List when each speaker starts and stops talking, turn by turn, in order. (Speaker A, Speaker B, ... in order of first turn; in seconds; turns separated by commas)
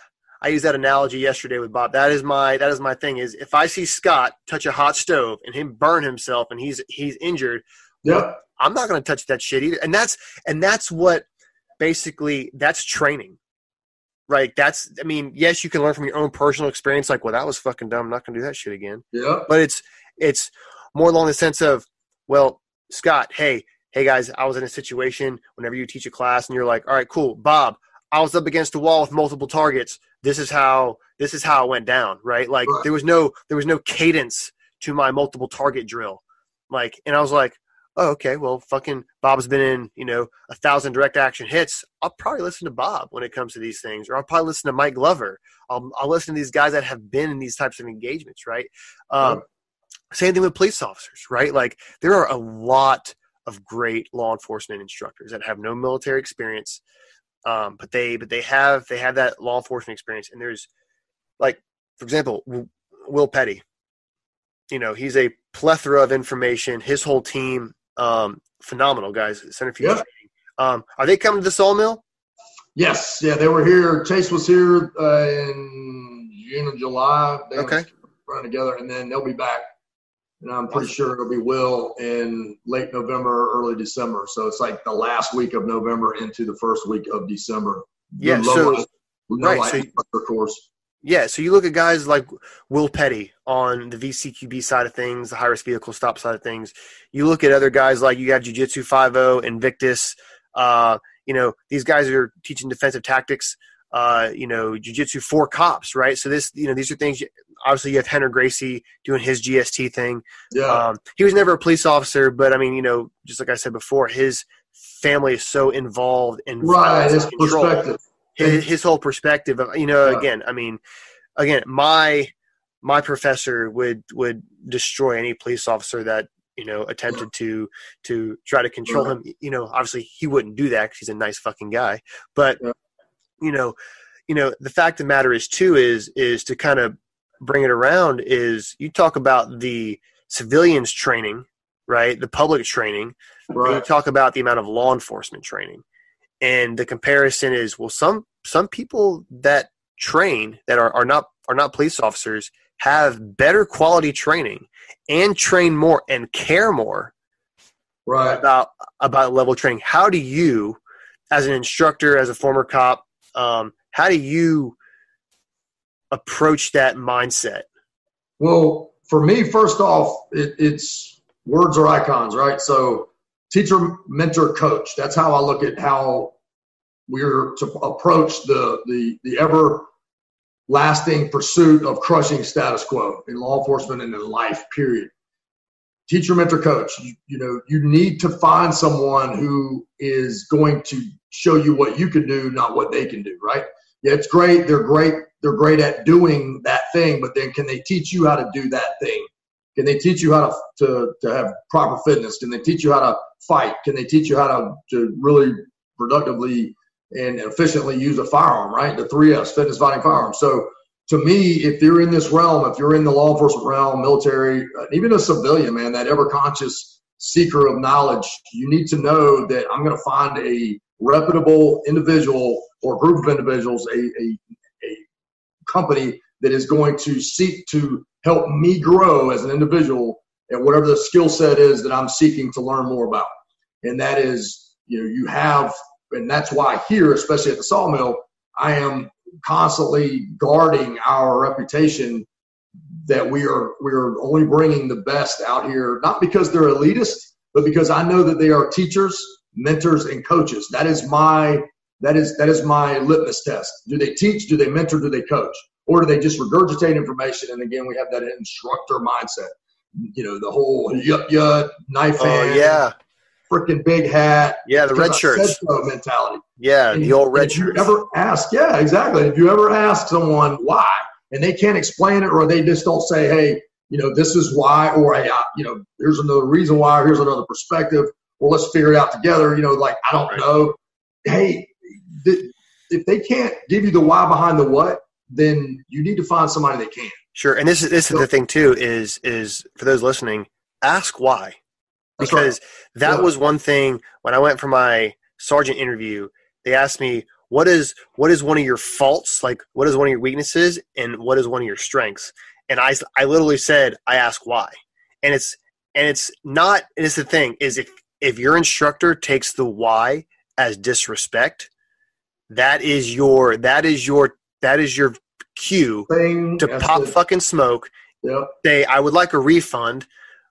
Speaker A: 0.4-7.6, Speaker B: 8.0-8.4, Speaker A: 8.6-11.2, Speaker A: 11.8-13.4, Speaker A: 14.3-49.4, Speaker B: 19.1-19.5, Speaker A: 50.1-56.8, Speaker A: 57.4-60.7, Speaker A: 61.4-63.6, Speaker A: 64.7-72.0, Speaker B: 72.8-79.6, Speaker A: 77.6-77.9, Speaker B: 80.4-90.7, Speaker A: 88.2-88.9, Speaker A: 89.4-89.9, Speaker A: 91.0-117.8, Speaker B: 110.5-110.8, Speaker B: 116.6-118.6, Speaker A: 118.3-120.8, Speaker A: 121.4-122.3, Speaker A: 122.8-132.6, Speaker A: 133.4-133.8, Speaker A: 134.3-145.8, Speaker B: 143.5-143.8, Speaker A: 146.4-157.1, Speaker B: 158.1-158.4, Speaker A: 158.3-160.8, Speaker A: 161.3-164.8, Speaker A: 166.1-167.7, Speaker B: 168.4-176.3, Speaker B: 177.1-179.9, Speaker B: 180.7-185.1, Speaker B: 186.1-225.0, Speaker B: 225.7-233.3, Speaker B: 233.8-242.2, Speaker B: 243.1-262.8, Speaker A: 262.2-262.9, Speaker B: 263.5-287.2, Speaker A: 264.6-265.6, Speaker A: 266.6-267.9, Speaker A: 287.3-291.6, Speaker B: 292.2-292.5, Speaker A: 292.2-311.7, Speaker A: 312.5-317.9, Speaker B: 316.1-317.1, Speaker B: 318.2-318.5, Speaker A: 318.6-320.1